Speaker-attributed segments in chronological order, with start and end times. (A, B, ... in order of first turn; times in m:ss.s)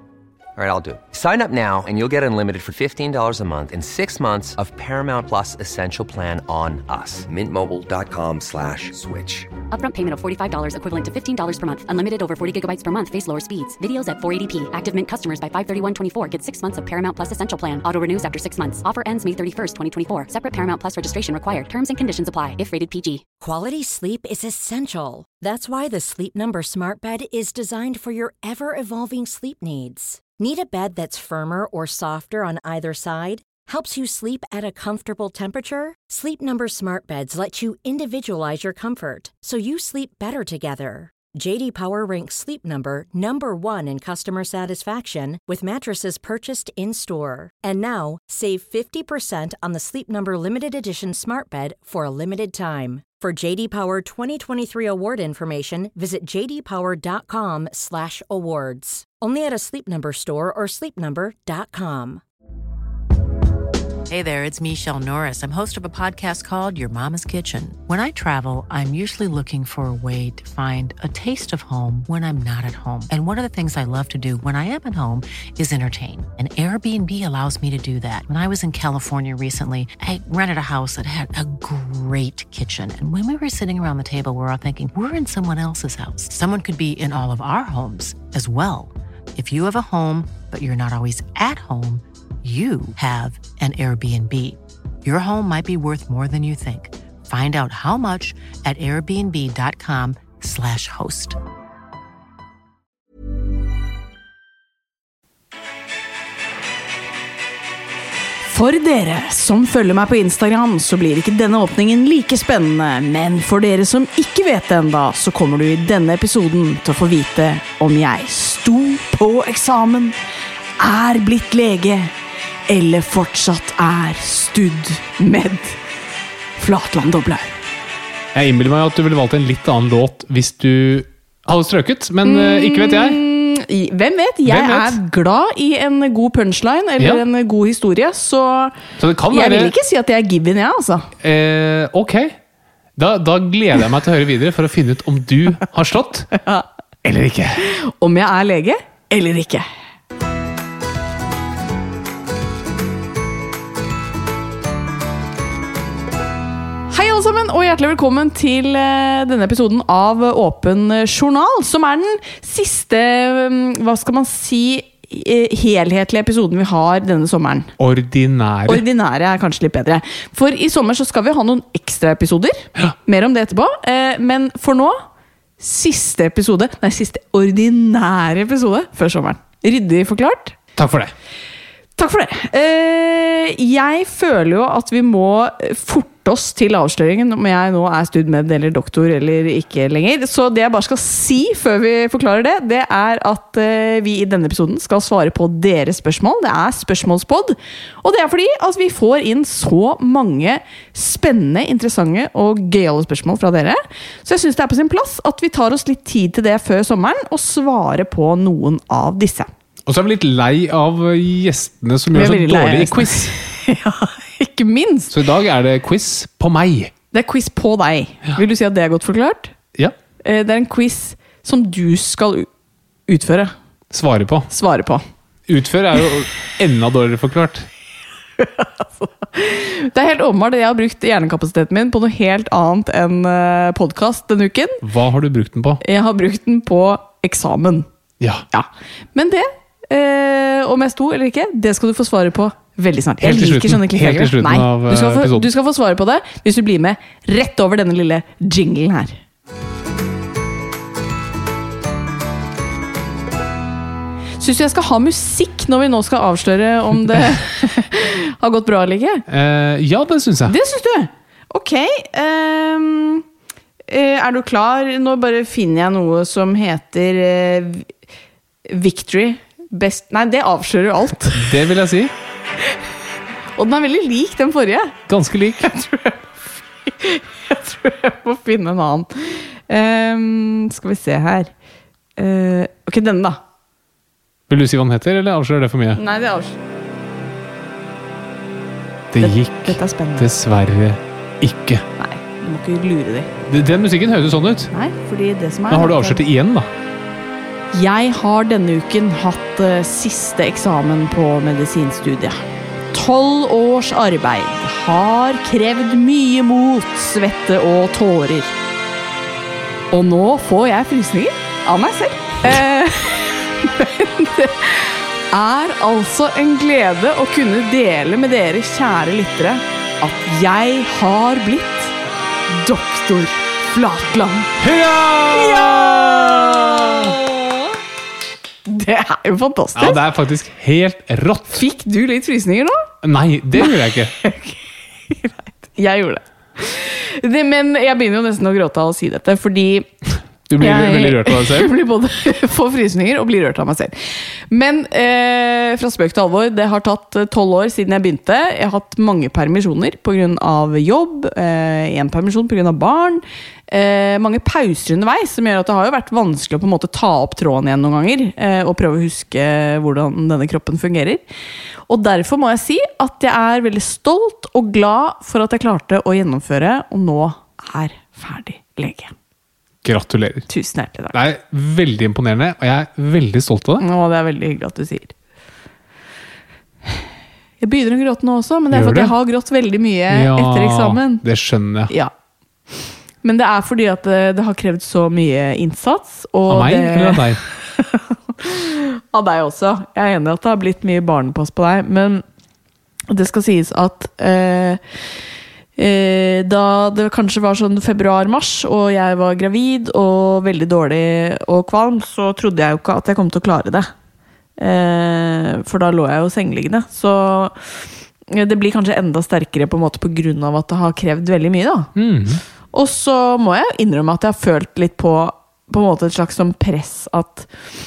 0:00.6-0:09.6 A
0:09.7-0:23.3 B
0:23.4-1:02.2 C
1:04.1-1:41.4 D
1:48.5-2:00.2 E
2:00.8-2:02.1 E
2:02.7-2:05.8 E
2:06.6-2:07.5 E
2:08.3-2:13.2 F
2:12.2-2:18.8 E
2:14.5-2:15.0 F
2:19.0-2:19.8 F
2:19.3-2:21.1 E
2:21.2-2:22.4 F
2:23.0-2:26.3 F
2:26.3-2:26.7 E
2:27.0-2:27.6 F
2:27.6-2:29.7 E
2:36.9-2:47.7 E
2:47.8-2:48.8 F
2:48.7-2:55.0 E
2:55.6-3:00.6 E
3:00.8-3:01.1 F
3:02.0-3:29.5 E
3:29.9-3:33.3 F
3:32.1-3:35.2 E
3:35.1-3:36.9 F
3:37.1-3:39.5 E
3:40.2-3:42.5 E
3:43.1-3:43.5 E
3:43.9-3:44.5 F
3:44.5-3:45.0 E
3:45.5-3:47.7 F
3:48.4-3:54.8 E
3:54.8-3:55.8 F
3:55.8-3:57.9 E
3:58.5-4:09.2 E
4:03.2-4:05.5 F
4:14.4-4:19.2 E
4:19.3-4:20.6 F
4:20.5-4:23.2 E
4:23.9-4:27.9 E
4:28.7-4:31.5 E
4:31.3-4:32.1 F
4:33.6-4:35.0 E
4:35.1-4:35.7 F
4:35.6-4:41.5 E
4:42.2-4:43.4 E
4:44.5-4:46.0 F
4:46.0-4:46.6 E
4:49.1-4:51.8 F
4:49.2-4:50.3 E
4:52.0-4:53.3 E
4:53.5-4:54.7 F
4:54.7-4:56.2 E
4:55.7-4:56.7 F
4:57.7-5:08.5 E
5:09.9-5:22.0 E
5:22.5-5:24.6 E
5:24.6-5:27.2 F
5:25.3-5:27.6 E
5:28.7-5:30.0 E
5:29.8-5:31.6 F
5:31.5-5:32.9 E
5:33.0-5:34.1 F
5:33.6-5:34.6 E
5:35.1-5:39.9 E
5:40.5-5:41.7 F
5:40.6-6:01.2 E
6:01.9-6:09.1 E
6:09.8-6:10.5 F
6:10.5-6:11.2 E
6:11.1-6:13.8 F
6:13.8-6:15.1 E
6:17.6-6:21.2 E
6:18.7-6:19.1 F
6:20.1-6:21.9 F
6:23.2-6:32.2 E
6:26.5-6:27.4 F
6:33.1-6:34.8 E
6:35.8-6:43.9 E
6:44.6-6:47.6 E
6:48.3-6:51.9 E
6:52.0-6:52.4 F
6:52.7-6:57.5 E